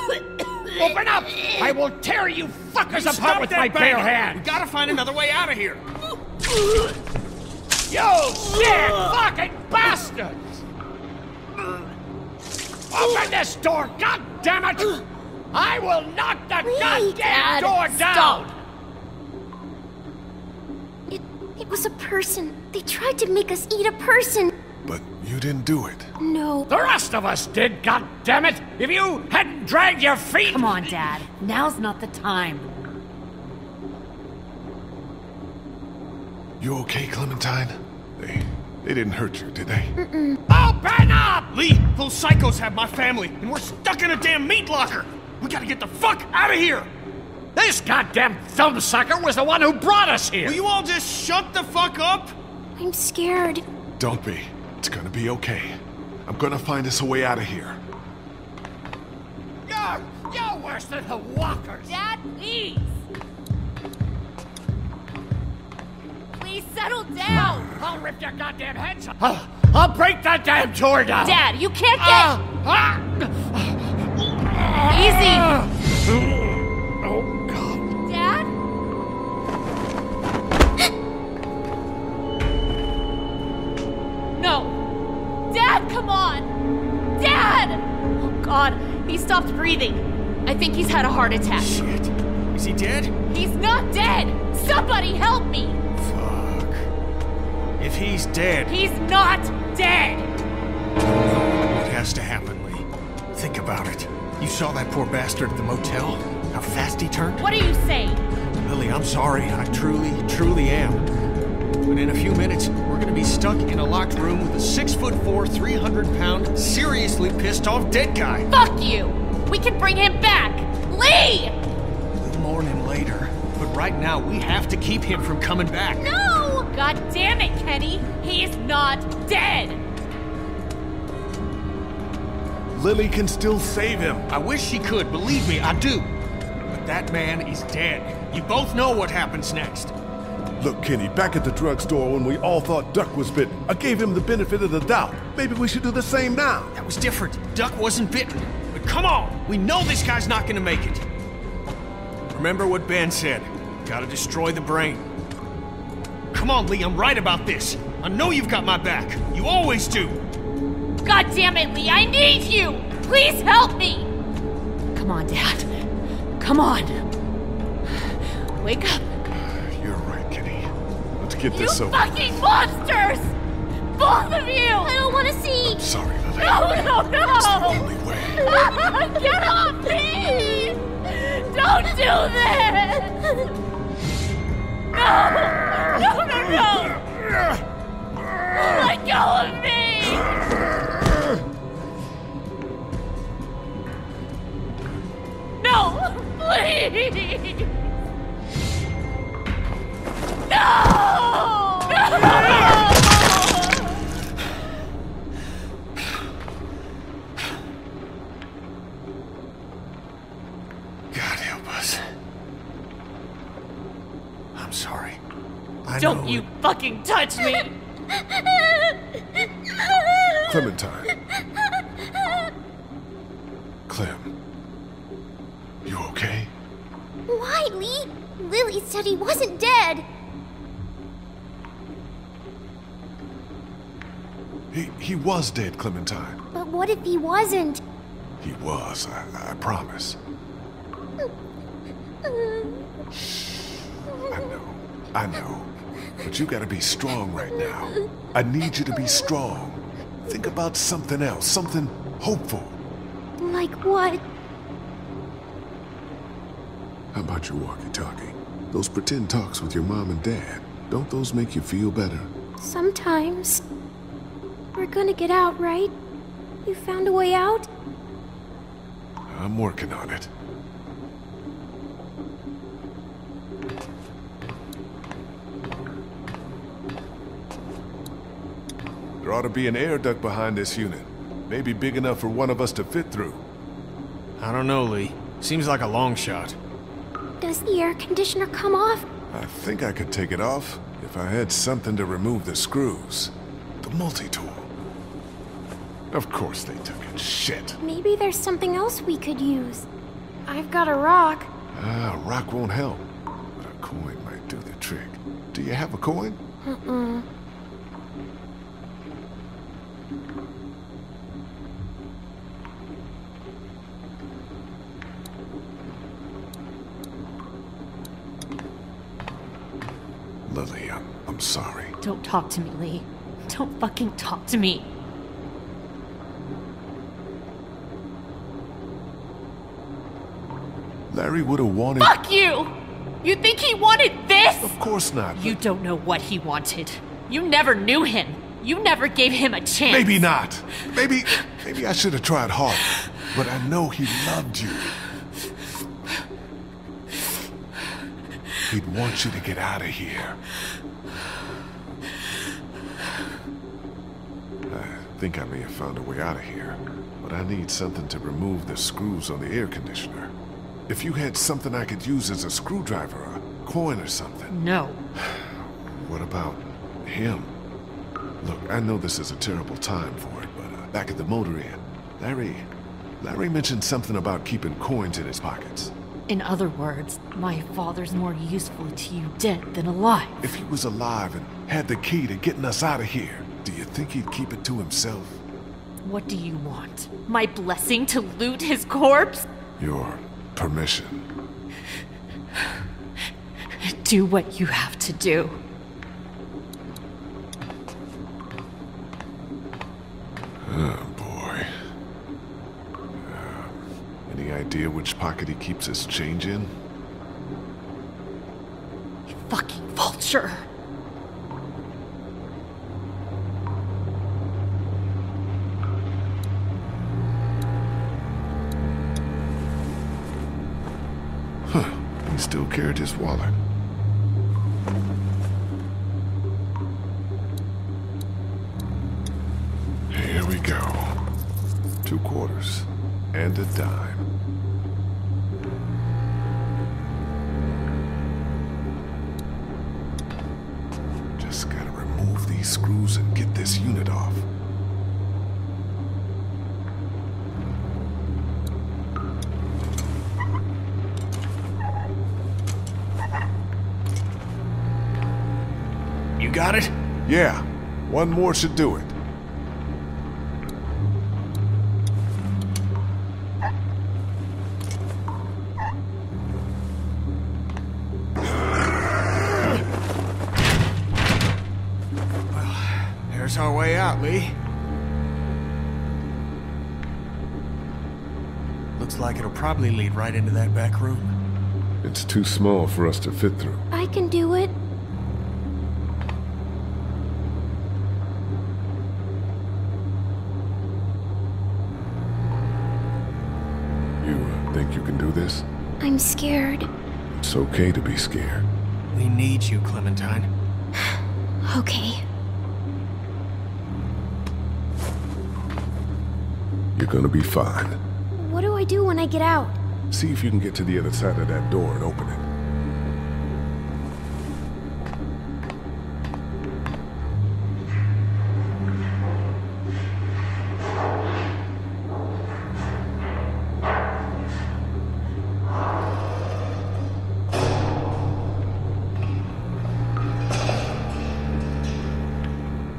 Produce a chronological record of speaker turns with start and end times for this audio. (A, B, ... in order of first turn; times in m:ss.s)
0:00.8-0:04.4 A
0:02.9-0:05.8 B
0:07.9-0:10.6 A
0:12.9-0:15.0 A
0:15.5-0:18.5 A
0:16.6-0:18.4 C
0:21.1-0:24.5 C
0:24.8-0:26.1 D
0:26.2-0:26.7 C
0:26.7-0:30.9 A
0:30.4-0:32.7 E
0:36.6-0:40.0 D
0:40.0-0:40.4 C
0:40.5-0:41.5 A
0:41.5-0:46.9 B
0:47.6-0:50.6 A
0:50.4-0:52.3 B
0:52.8-0:53.6 C
0:54.0-0:57.8 D
0:59.7-1:01.9 A
1:01.9-1:03.0 E
1:06.4-1:07.7 E
1:07.5-1:11.4 A
1:11.2-1:12.4 E
1:12.0-1:13.7 A
1:14.5-1:16.3 A
1:14.9-1:15.6 E
1:17.0-1:17.8 A
1:18.0-1:18.5 E
1:24.4-1:24.8 E
1:25.5-1:26.5 E
1:27.2-1:31.7 E
1:31.6-1:33.1 B
1:33.3-1:35.8 E
1:36.0-1:36.9 B
1:37.8-1:38.7 B
1:38.7-1:40.3 E
1:41.7-1:47.5 B
1:47.4-1:48.2 E
1:48.6-1:51.1 B
1:51.9-1:58.5 B
1:58.5-2:01.6 E
2:02.2-2:06.0 B
2:06.0-2:09.8 E
2:12.7-2:14.3 D
2:14.3-2:16.1 B
2:16.7-2:19.9 B
2:20.6-2:26.7 D
2:26.7-2:31.0 B
2:32.3-2:35.1 B
2:36.3-2:40.2 B
2:41.0-2:44.1 E
2:44.9-2:45.7 E
2:46.4-2:47.0 E
2:48.6-2:49.0 E
2:49.3-2:52.2 D
2:51.5-2:53.4 E
2:54.0-2:55.0 E
2:54.8-2:55.8 C
2:55.6-2:58.4 D
2:56.4-3:03.4 E
3:04.9-3:07.2 E
3:08.4-3:10.5 E
3:15.6-3:17.7 E
3:20.5-3:23.8 E
3:31.1-3:32.1 B
3:34.5-3:35.2 B
3:35.8-3:36.5 B
3:36.0-3:37.8 E
3:40.4-3:41.1 D
3:43.9-3:44.3 D
3:45.8-3:46.5 D
3:47.3-3:50.1 C
3:54.7-3:56.4 D
3:56.5-3:57.8 C
3:58.4-4:00.2 D
4:02.3-4:02.9 C
4:03.1-4:05.7 D
4:06.2-4:12.8 D
4:13.4-4:14.2 C
4:17.1-4:22.3 D
4:22.6-4:23.6 C
4:24.8-4:25.9 C
4:26.6-4:27.7 C
4:29.3-4:30.3 D
4:39.2-4:43.4 D
4:44.4-4:46.6 B
4:47.4-4:49.1 C
4:49.3-4:54.7 D
4:56.1-4:57.8 D
4:57.8-4:59.9 C
5:00.5-5:01.5 C
5:01.7-5:03.1 D
5:03.6-5:06.4 D
5:06.6-5:07.3 C
5:20.5-5:22.0 D
5:22.0-5:24.9 E
5:31.1-5:32.2 D
5:32.0-5:34.8 E
5:34.6-5:35.6 D
5:35.4-5:40.3 E
5:39.9-5:45.0 D
5:48.7-5:50.4 D
5:54.7-6:00.3 D
6:00.9-6:04.6 D
6:04.5-6:05.0 E
6:05.2-6:07.5 D
6:08.4-6:12.7 D
6:13.2-6:15.9 D
6:16.3-6:20.4 E
6:20.4-6:25.4 D
6:26.0-6:29.5 E
6:29.8-6:31.3 D
6:33.8-6:35.6 E
6:40.6-6:41.7 D
6:43.2-6:46.7 D
6:49.3-6:50.7 E
7:01.7-7:03.5 D
7:10.1-7:11.2 D
7:12.0-7:14.2 D
7:21.4-7:24.5 D
7:36.4-7:36.9 B
7:37.3-7:39.2 D
7:52.5-7:54.6 B
7:59.0-8:01.4 B
8:02.0-8:03.8 D
8:03.9-8:04.7 C
8:14.2-8:15.7 D
8:16.0-8:16.9 C
8:17.3-8:18.7 D
8:19.1-8:20.5 B
8:21.7-8:22.2 C
8:27.0-8:28.0 D
8:28.4-8:29.8 C
8:30.1-8:32.5 D